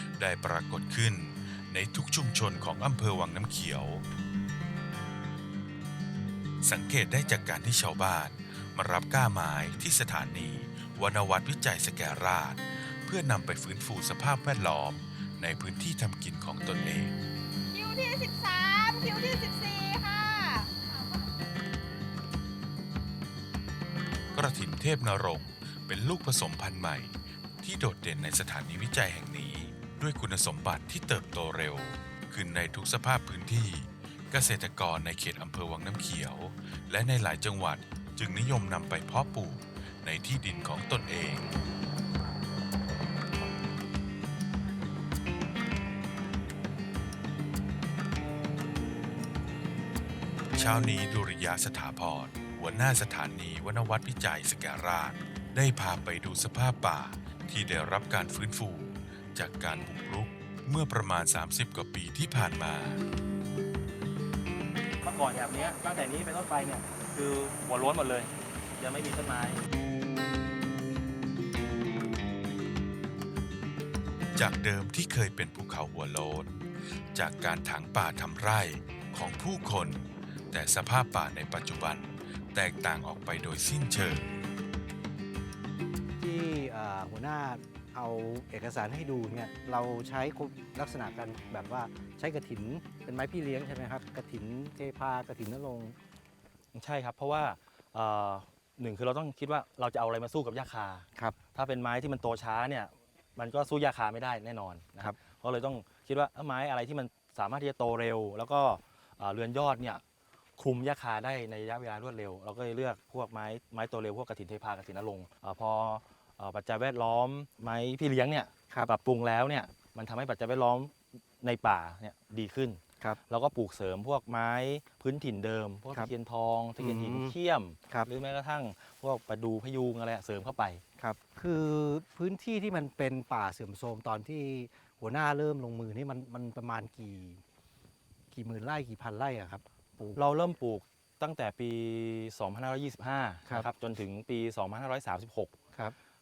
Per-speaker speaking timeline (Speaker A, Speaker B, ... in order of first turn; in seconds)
Speaker A: 0.1-4.0, 6.6-17.1, 24.3-41.5, 50.5-63.0, 74.3-76.6, 77.1-84.3
Speaker B: 17.7-20.7
Speaker C: 65.0-69.6, 96.7-110.0, 110.6-130.8, 140.2-145.6
Speaker D: 86.2-96.0, 126.8-127.3, 131.0-137.4, 138.3-140.2